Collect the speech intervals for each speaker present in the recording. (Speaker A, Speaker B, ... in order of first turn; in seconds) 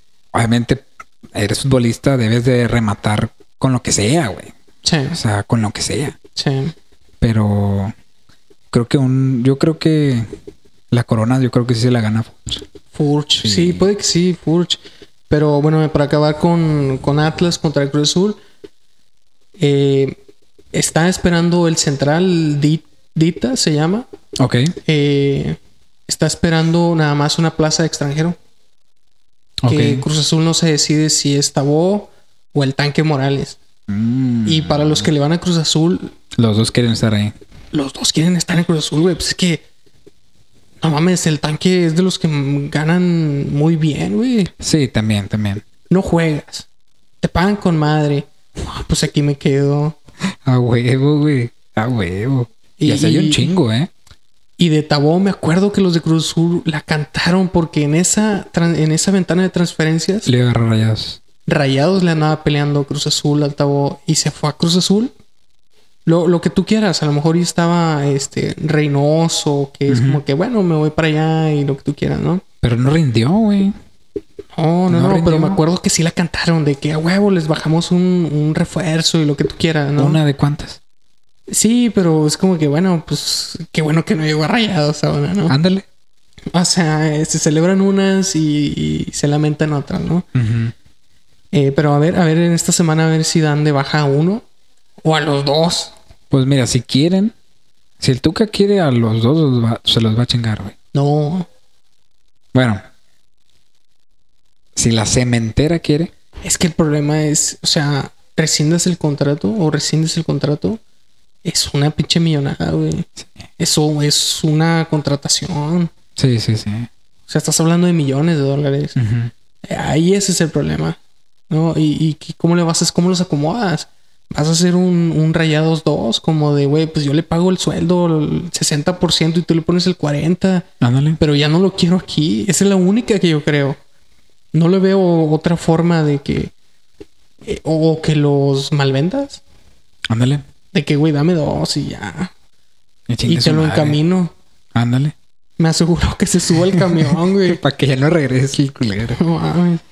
Speaker A: 0.3-4.5, 5.1-6.2, 7.2-7.9, 8.7-10.3, 10.9-12.6, 13.4-13.9, 24.4-24.7, 29.6-30.1, 33.9-35.1, 36.4-37.3, 44.6-45.6, 50.5-53.9, 60.2-61.2, 69.9-70.2, 72.6-73.7, 74.9-75.6, 80.0-80.8, 85.5-85.9, 90.3-90.7, 96.3-97.3, 98.0-100.8, 102.5-102.8, 104.8-106.1, 116.2-116.9, 119.0-119.3, 130.8-131.2, 140.1-140.4, 143.1-144.0, 144.7-145.1, 146.7-149.2
Speaker B: 4.8-5.2, 6.4-6.7, 12.9-18.4, 19.6-20.2, 20.7-24.1, 24.8-28.4, 29.7-33.6, 34.5-36.1, 37.7-39.6, 40.8-44.5, 45.9-46.7, 47.2-50.0, 52.8-53.5, 54.6-60.3, 61.5-65.1, 66.0-72.4, 74.5-80.2, 81.5-85.5, 86.5-90.3, 91.5-94.5, 95.0-95.9, 100.9-101.5, 106.4-110.8, 111.4-113.1, 113.6-115.9, 117.3-119.0, 119.6-121.0, 121.5-130.7, 131.2-133.8, 134.5-136.5, 137.4-139.4, 140.7-142.3, 143.3-144.3, 145.6-147.6, 149.1-149.8